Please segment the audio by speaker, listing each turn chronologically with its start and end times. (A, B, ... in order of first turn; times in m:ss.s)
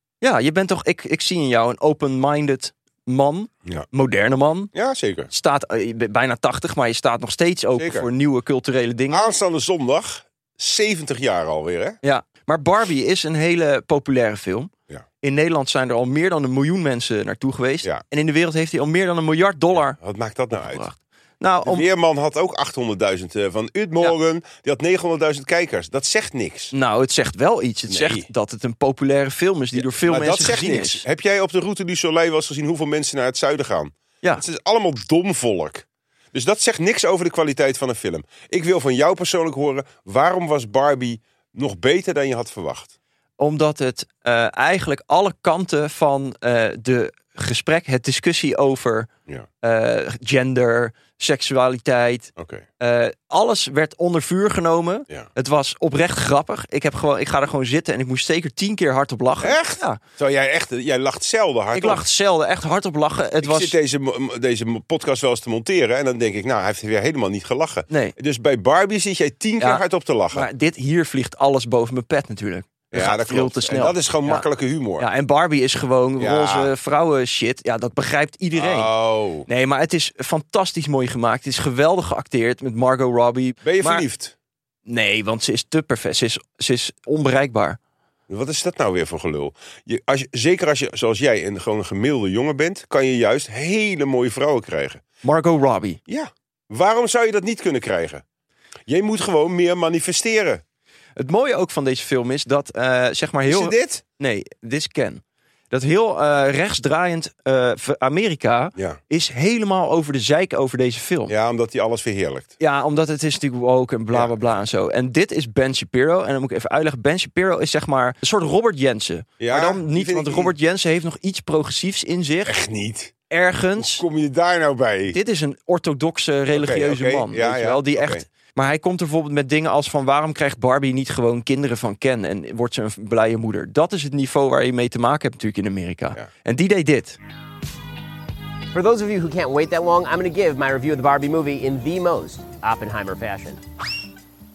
0:00.2-0:04.7 A
0:04.7-0:05.3 B
0:05.3-0:09.2 A
0:07.8-0:08.1 B
0:09.1-0:12.0 B
0:12.0-0:14.7 A
0:15.2-0:20.0 A
0:19.8-0:20.9 B
0:20.5-0:21.9 A
0:21.6-0:26.7 B
0:26.7-0:31.0 A
0:27.9-0:28.3 B
0:29.7-0:42.9 B
0:43.4-0:49.1 A
0:49.6-1:00.0 A
0:52.4-0:52.7 B
0:59.4-1:02.0 B
1:01.7-1:03.8 A
1:03.4-1:10.5 B
1:07.9-1:08.2 A
1:09.6-1:14.5 A
1:12.9-1:15.1 B
1:15.0-1:18.9 A
1:16.2-1:16.7 B
1:18.5-1:19.5 B
1:19.5-1:24.0 A
1:23.6-1:24.4 B
1:24.9-1:27.8 A
1:28.3-1:35.0 B
1:35.2-1:36.0 A
1:36.1-1:38.2 B
1:38.9-1:40.6 B
1:41.2-1:51.3 A
1:43.4-1:44.0 B
1:51.3-1:52.6 B
1:52.6-2:02.6 A
1:54.1-1:54.5 B
1:59.4-2:00.6 B
2:02.4-2:03.1 B
2:03.3-2:04.0 A
2:03.8-2:05.2 B
2:05.1-2:17.2 A
2:06.5-2:08.3 B
2:18.7-2:23.6 C